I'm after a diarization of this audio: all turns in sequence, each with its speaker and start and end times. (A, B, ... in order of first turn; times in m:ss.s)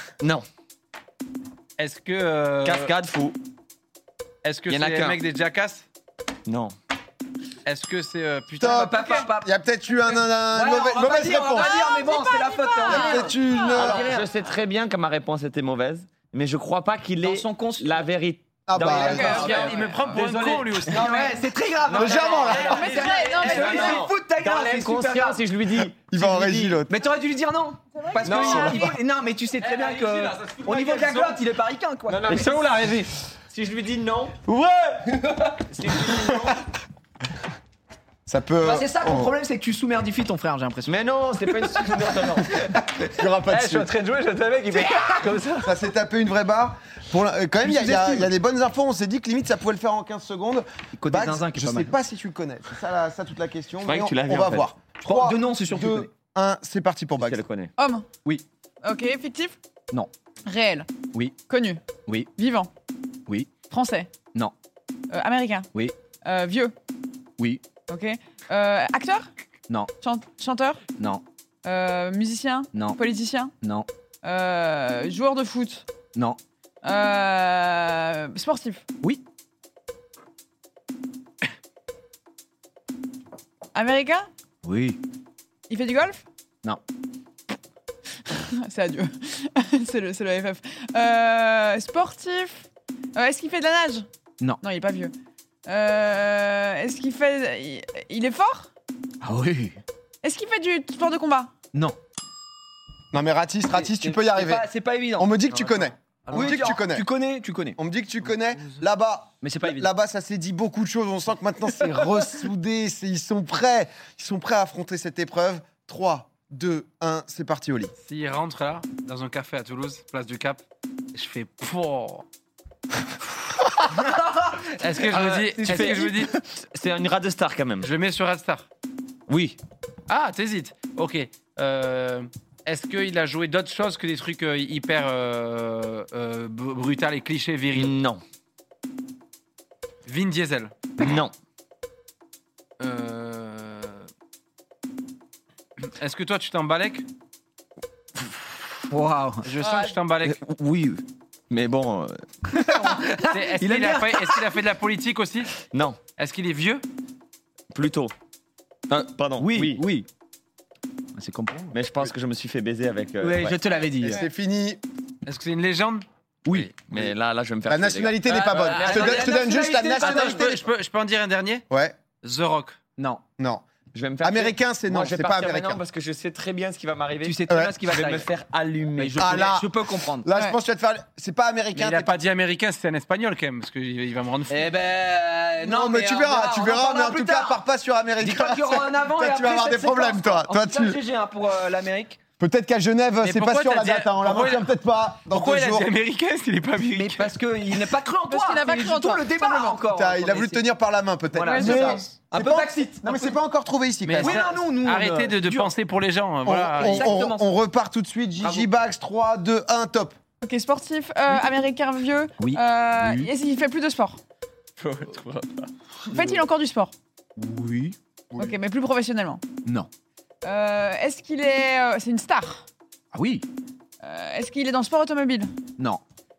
0:00.2-0:00.4 A
0:01.8-0:02.9 B
0:02.6-0:03.4 A
0:04.4-0:05.8 B
0:04.7-0:05.2 A
0:06.4-0:06.7 A
0:07.6-0:08.8 B
0:08.6-0:11.7 C
0:08.6-0:14.3 D
0:08.8-0:09.3 E
0:11.5-0:14.0 E
0:12.9-0:14.1 C
0:13.7-0:21.3 A
0:17.2-0:18.0 D
0:18.7-0:19.6 C
0:18.8-0:20.3 D
0:19.0-0:20.0 E
0:19.1-0:21.1 B
0:20.8-0:25.4 D
0:20.9-0:21.4 E
0:21.9-0:22.8 C
0:21.9-0:26.8 A
0:22.1-0:24.0 B
0:22.6-0:24.1 E
0:26.1-0:26.9 C
0:26.9-0:32.5 D
0:28.0-0:28.9 E
0:28.2-0:28.9 A
0:28.3-0:28.8 C
0:29.6-0:31.4 B
0:32.1-0:36.6 A
0:38.2-0:39.3 C
0:38.6-0:41.0 D
0:40.8-0:42.6 A
0:42.9-0:43.9 C
0:43.5-0:45.6 B
0:43.5-0:45.6 A
0:44.9-0:45.3 D
0:45.6-0:57.4 C
0:47.6-0:48.3 D
0:51.0-0:52.0 D
0:53.8-0:54.7 A
0:55.0-0:56.1 D
0:57.2-0:57.7 A
0:57.8-0:58.1 E
0:58.8-0:59.6 E
1:00.4-1:00.9 E
1:01.5-1:01.8 E
1:02.4-1:02.7 E
1:03.6-1:04.1 E
1:05.1-1:05.7 E
1:06.2-1:06.7 E
1:07.9-1:09.3 E
1:10.0-1:10.8 E
1:11.0-1:11.2 D
1:11.6-1:13.5 E
1:12.7-1:13.0 D
1:13.6-1:13.9 D
1:14.2-1:15.8 E
1:16.1-1:16.4 D
1:16.8-1:18.8 E
1:23.7-1:24.3 E
1:24.6-1:25.0 D
1:25.7-1:26.2 E
1:28.3-1:34.1 E
1:34.6-1:35.1 E
1:35.6-1:38.7 E
1:39.2-1:39.8 D
1:40.2-1:41.5 E
1:43.1-1:47.1 C
1:43.7-1:45.4 D
1:45.5-1:46.6 B
1:46.3-1:47.8 D
1:47.8-1:57.9 C
1:49.4-1:49.9 D
1:58.0-2:00.6 B
2:01.1-2:02.2 B
2:03.9-2:06.4 D
2:04.8-2:06.3 B
2:05.1-2:07.9 A
2:07.8-2:08.7 B
2:09.3-2:09.6 A
2:10.1-2:17.9 B
2:17.7-2:18.2 A
2:20.1-2:20.7 B
2:21.0-2:21.3 A
2:22.8-2:24.1 B
2:25.8-2:27.0 B
2:28.9-2:29.5 D
2:29.4-2:30.4 B
2:30.3-2:32.2 A
2:32.5-2:34.4 D
2:33.2-2:35.6 B
2:35.7-2:36.0 A
2:36.2-2:36.8 B
2:37.7-2:38.1 A
2:38.9-2:39.8 A
2:39.4-2:40.1 D
2:41.1-2:41.7 D
2:41.7-2:43.6 A
2:43.2-2:44.2 D
2:44.0-2:44.8 C
2:45.2-2:46.7 B
2:46.9-2:48.2 A
2:47.7-2:50.6 C
2:48.3-2:49.3 B
2:48.3-2:50.6 D
2:50.0-2:51.6 B
2:51.7-2:52.0 C
2:52.2-2:52.8 B
2:53.0-2:53.2 D
2:53.4-2:53.6 C
2:53.9-2:59.5 A
2:54.2-2:55.8 C
2:57.2-2:58.3 D
2:57.5-2:57.8 C
2:59.0-3:00.3 D
2:59.2-3:02.2 C
3:01.7-3:04.7 B
3:04.5-3:07.6 D
3:05.6-3:11.0 C
3:08.2-3:12.2 D
3:12.4-3:15.9 C
3:13.2-3:17.3 B
3:16.8-3:20.6 D
3:18.3-3:19.8 E
3:19.9-3:24.4 C
3:21.3-3:23.3 D
3:21.4-3:22.0 E
3:24.0-3:27.1 B
3:24.2-3:25.7 D
3:26.4-3:30.1 C
3:26.8-3:27.6 D
3:30.4-3:34.2 E
3:32.4-3:33.3 D
3:34.8-3:35.7 A
3:36.1-3:36.9 E
3:37.4-3:38.0 D
3:38.3-3:39.4 E
3:40.4-3:42.6 E
3:43.1-3:43.4 D
3:44.0-3:45.5 E